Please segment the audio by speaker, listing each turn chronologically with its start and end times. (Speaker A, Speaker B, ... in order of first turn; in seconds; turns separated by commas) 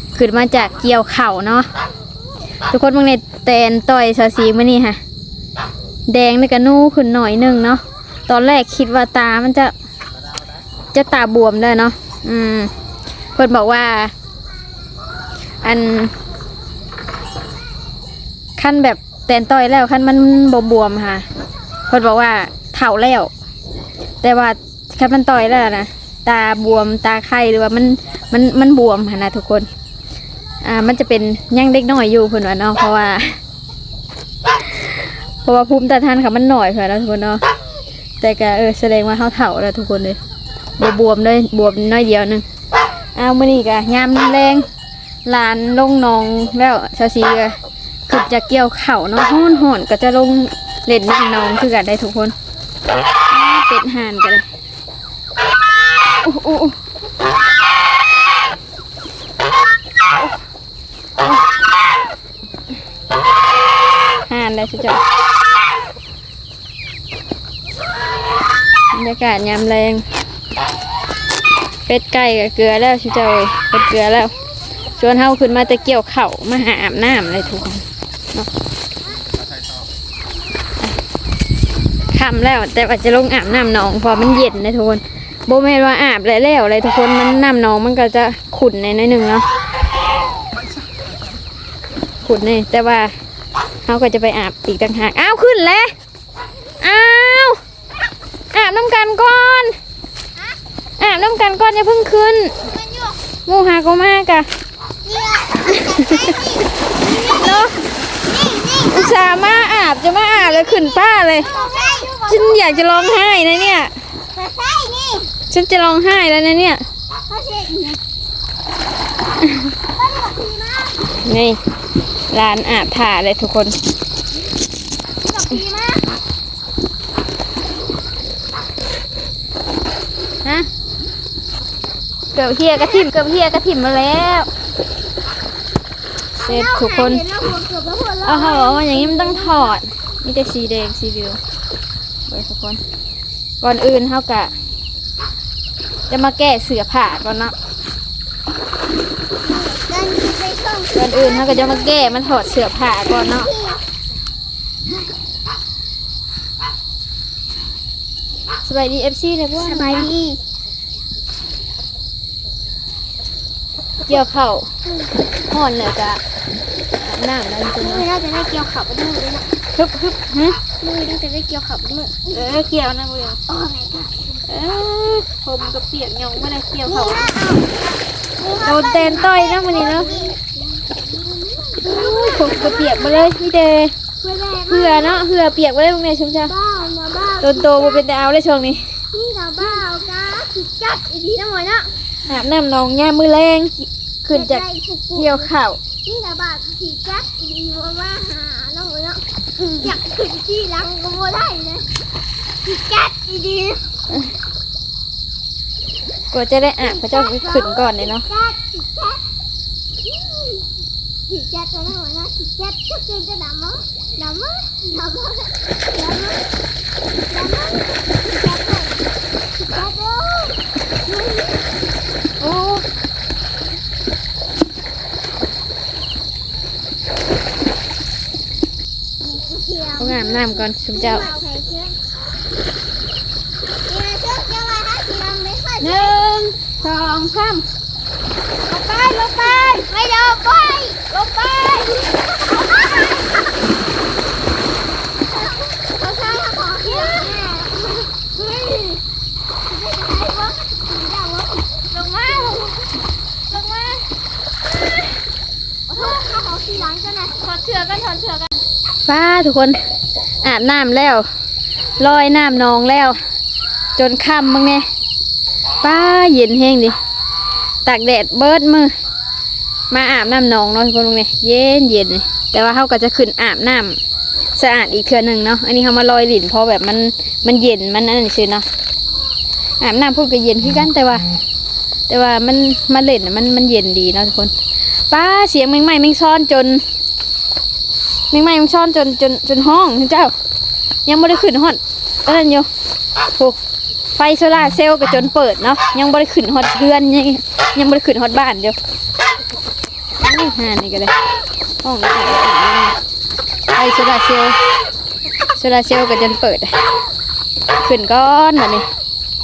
Speaker A: 0.1-1.7, Speaker A: 2.7-5.0, Speaker A: 6.1-9.7, Speaker A: 10.9-12.7, Speaker A: 13.3-14.1, Speaker A: 15.6-16.1, Speaker A: 18.6-21.2, Speaker A: 21.9-23.3, Speaker A: 24.2-29.7, Speaker A: 30.6-33.4, Speaker A: 35.4-37.4, Speaker A: 38.2-40.2, Speaker A: 40.8-42.5, Speaker A: 43.1-44.6, Speaker A: 45.2-52.3, Speaker A: 53.3-54.5, Speaker A: 56.2-56.8, Speaker A: 64.2-65.0, Speaker A: 68.9-70.0, Speaker A: 71.9-74.3, Speaker A: 74.9-78.5, Speaker A: 82.1-89.5, Speaker A: 92.2-93.1, Speaker A: 93.8-95.9, Speaker A: 96.8-97.6, Speaker A: 98.5-99.8, Speaker A: 101.0-102.5, Speaker B: 102.7-103.2, Speaker A: 103.5-104.5, Speaker B: 105.0-109.4, Speaker A: 105.7-106.4, Speaker A: 107.0-107.8, Speaker A: 108.9-111.5, Speaker B: 110.4-113.5, Speaker A: 112.2-113.9, Speaker B: 114.3-115.3, Speaker A: 115.5-116.8, Speaker B: 117.3-118.0, Speaker B: 119.9-121.0, Speaker A: 121.2-121.6, Speaker A: 122.3-123.8, Speaker B: 125.2-126.1, Speaker A: 132.3-134.5, Speaker A: 136.4-137.2, Speaker B: 136.4-139.8, Speaker A: 138.2-141.4, Speaker A: 142.3-142.8, Speaker A: 143.6-144.5, Speaker A: 146.1-147.5, Speaker B: 149.4-152.2, Speaker A: 150.9-153.5, Speaker B: 153.1-153.8, Speaker A: 158.6-160.1, Speaker B: 159.6-160.4, Speaker A: 164.1-164.7, Speaker A: 165.5-166.2, Speaker A: 166.9-168.1, Speaker B: 167.7-169.5, Speaker A: 169.8-170.6, Speaker B: 170.8-172.4, Speaker A: 172.3-173.4, Speaker B: 173.5-174.3, Speaker A: 174.5-177.3, Speaker B: 176.8-183.3, Speaker A: 178.6-180.3, Speaker A: 181.8-183.9, Speaker B: 184.2-185.2, Speaker A: 184.7-186.5, Speaker B: 186.4-188.1, Speaker A: 187.4-189.0, Speaker B: 189.1-191.9, Speaker A: 192.2-195.8, Speaker B: 194.3-195.5, Speaker B: 196.0-201.9, Speaker B: 202.6-203.9, Speaker A: 206.3-208.2, Speaker B: 206.8-209.2, Speaker B: 210.0-210.7, Speaker B: 211.3-216.4, Speaker B: 217.3-221.7, Speaker A: 222.4-222.8, Speaker B: 229.2-232.0, Speaker A: 230.0-231.2, Speaker B: 233.9-236.2, Speaker A: 235.8-237.7, Speaker A: 238.7-239.8, Speaker B: 238.8-241.1, Speaker A: 241.1-241.9, Speaker B: 241.9-243.2, Speaker B: 245.3-249.0, Speaker A: 246.9-247.2, Speaker B: 249.7-252.7, Speaker A: 251.9-252.8, Speaker A: 253.5-254.0, Speaker B: 255.9-257.4, Speaker A: 257.4-258.5, Speaker A: 259.1-259.8, Speaker A: 260.4-261.2, Speaker A: 262.0-263.2, Speaker A: 263.9-264.8, Speaker A: 265.8-266.9, Speaker A: 267.8-268.9, Speaker A: 269.9-274.0, Speaker A: 274.6-278.6, Speaker A: 279.8-281.2, Speaker A: 282.1-284.5, Speaker A: 285.1-286.8, Speaker A: 288.3-290.3, Speaker A: 291.1-292.7, Speaker A: 294.1-298.8, Speaker A: 300.2-301.1, Speaker A: 301.8-302.9, Speaker A: 303.7-304.6, Speaker A: 305.6-306.7, Speaker A: 307.8-308.8